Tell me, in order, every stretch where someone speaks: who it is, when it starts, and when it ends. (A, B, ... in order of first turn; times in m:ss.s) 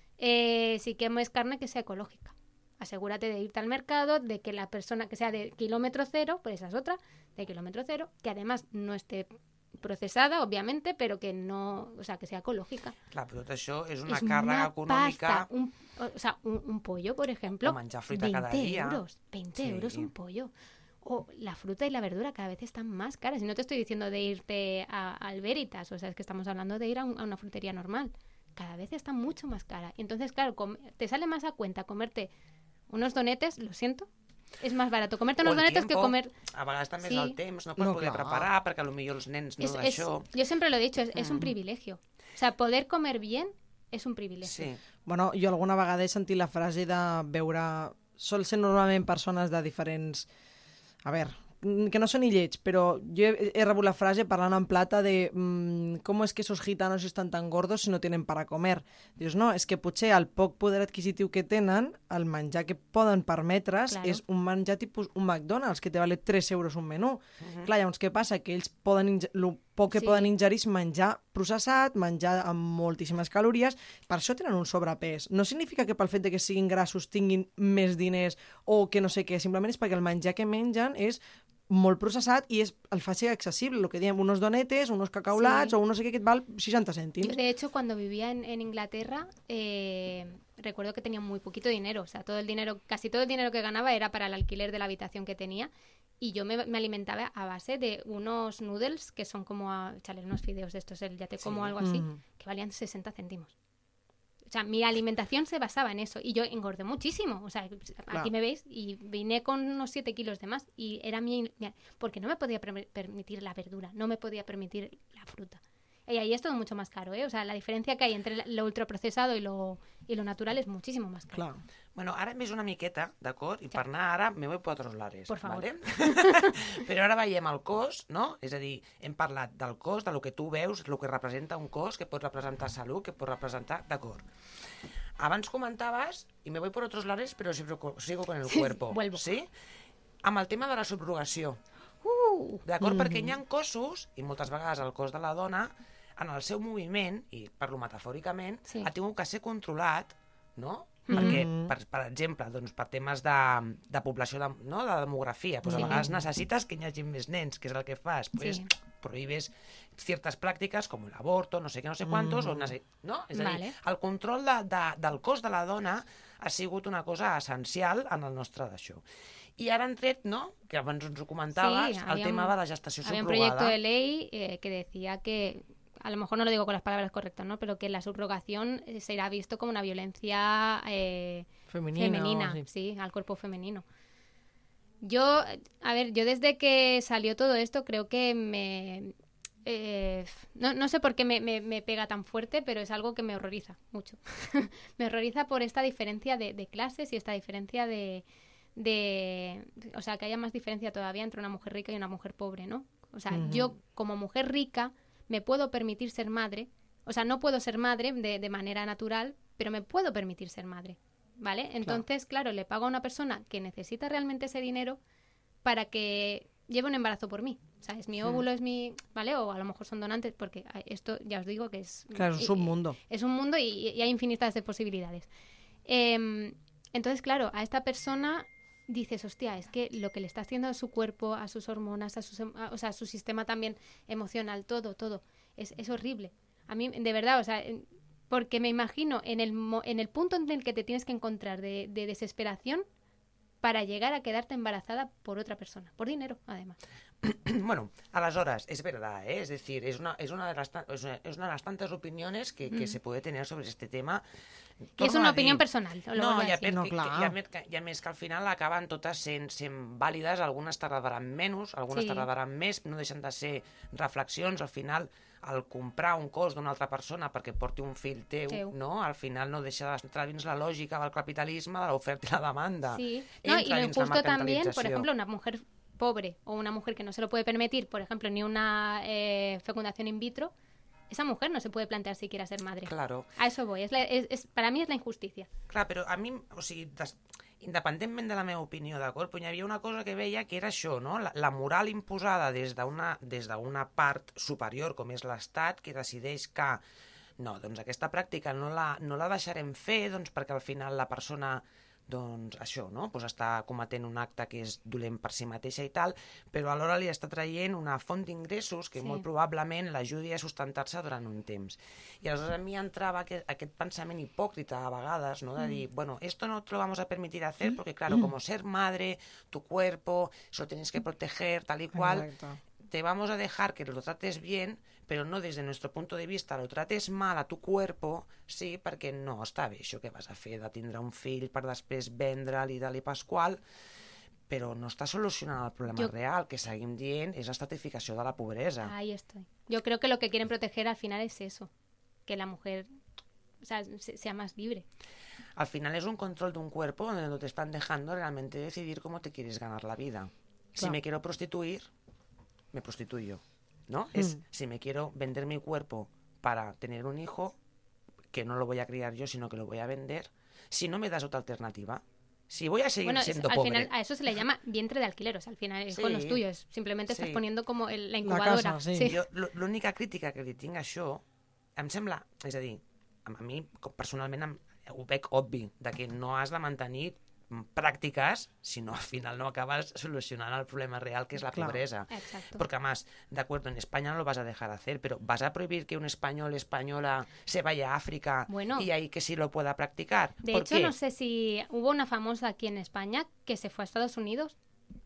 0:00.2-0:12.9 A
0:13.1-0:15.5 B
0:14.1-0:32.3 A
0:17.6-0:19.0 B
0:19.6-0:20.1 B
0:32.9-0:34.1 A
0:34.6-0:36.3 A
0:35.4-0:40.3 B
0:37.0-0:37.4 A
0:37.8-0:38.5 C
0:39.6-0:44.7 A
0:44.4-0:44.8 B
0:45.0-0:50.3 C
0:51.0-1:27.4 C
1:03.9-1:04.2 A
1:07.4-1:07.7 B
1:09.9-1:10.3 A
1:25.3-1:25.8 A
1:27.2-1:43.5 A
1:41.4-1:41.7 B
1:41.8-1:42.2 C
1:44.5-2:01.4 A
2:01.3-2:01.6 C
2:01.9-2:14.2 B
2:05.3-2:06.6 A
2:15.2-2:19.5 B
2:18.5-2:19.3 A
2:20.2-2:21.6 B
2:22.0-2:22.6 A
2:22.6-2:49.0 B
2:22.8-2:23.4 C
2:31.1-2:31.4 A
2:31.1-2:31.7 C
2:35.6-2:36.2 C
2:35.7-2:36.0 A
2:38.4-2:38.7 A
2:42.0-2:42.7 C
2:43.3-2:43.7 A
2:49.6-2:53.8 B
2:51.5-3:03.8 A
3:01.7-3:02.6 C
3:05.0-3:09.1 A
3:09.6-3:18.2 A
3:18.8-3:35.0 A
3:23.3-3:23.7 C
3:35.6-3:45.3 A
3:42.1-3:43.0 C
3:45.8-4:02.8 A
4:03.6-4:06.8 A
4:07.2-4:14.2 B
4:12.7-4:13.0 A
4:15.0-4:35.1 B
4:15.0-4:16.8 A
4:16.7-4:17.3 C
4:21.9-4:22.3 A
4:32.9-4:40.5 A
4:41.1-4:45.5 A
4:42.8-4:43.3 B
4:45.7-4:56.8 B
4:57.4-5:22.3 B
5:09.0-5:09.2 A
5:21.9-5:22.6 C
5:22.8-5:33.6 B
5:34.5-5:38.9 B
5:38.8-5:41.7 A
5:42.3-5:42.8 A
5:43.6-5:44.8 A
5:45.6-5:51.9 B
5:52.7-5:57.6 B
5:58.3-6:03.9 B
6:03.0-6:09.2 A
6:05.9-6:06.4 B
6:07.1-6:07.4 B
6:08.2-6:09.1 C
6:09.0-6:11.2 B
6:11.8-6:30.9 B
6:21.5-6:21.8 C
6:22.1-6:22.6 A
6:28.5-6:28.9 A
6:30.4-6:34.6 A